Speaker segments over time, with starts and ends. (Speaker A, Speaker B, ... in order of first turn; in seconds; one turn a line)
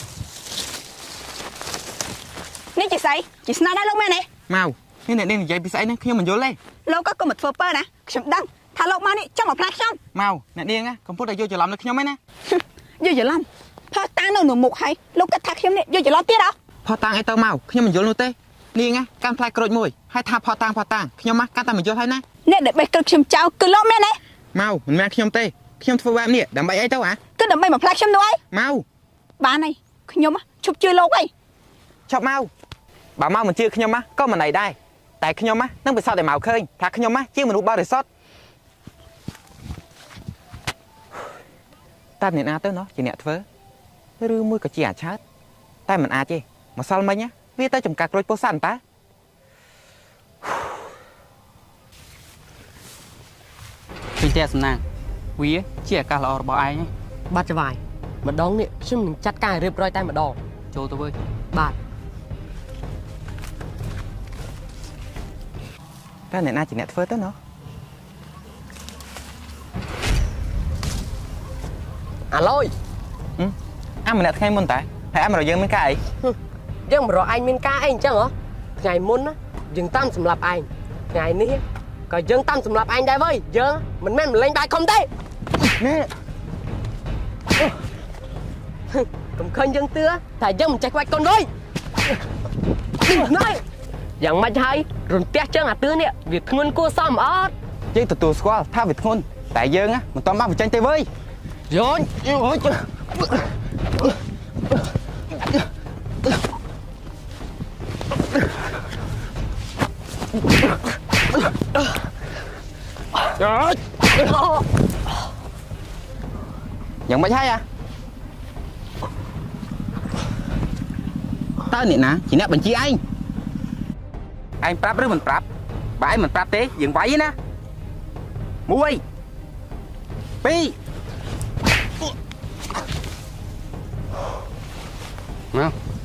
Speaker A: 2.7-4.3
Speaker B: 4.5-6.6
Speaker A: 6.8-10.0
Speaker B: 10.1-12.2
Speaker A: 12.5-16.5
Speaker B: 16.8-22.2
Speaker A: 22.4-24.2
Speaker B: 24.5-27.2
Speaker A: 27.4-28.4
Speaker B: 28.5-28.8
Speaker A: 29.4-31.3
Speaker B: 32.1-32.5
Speaker B: 33.2-38.1
Speaker B: 42.2-43.5
Speaker B: 44.2-45.2
Speaker B: 45.9-48.8
Speaker C: 54.2-54.8
Speaker C: 55.4-56.9
Speaker D: 57.3-60.4
Speaker C: 60.7-61.1
Speaker B: 66.3-67.4
Speaker D: 72.3-72.7
Speaker B: 73.4-76.0
Speaker D: 76.2-85.1
Speaker B: 85.8-86.1
Speaker D: 88.9-91.5
Speaker D: 93.0-93.6
Speaker D: 94.2-97.5
Speaker B: 97.9-101.1
Speaker D: 101.7-102.8
Speaker B: 117.1-117.6
Speaker B: 121.7-123.0
Speaker B: 124.6-125.4
Speaker B: 126.0-127.3
Speaker B: 128.7-129.0
Speaker B: 130.4-130.7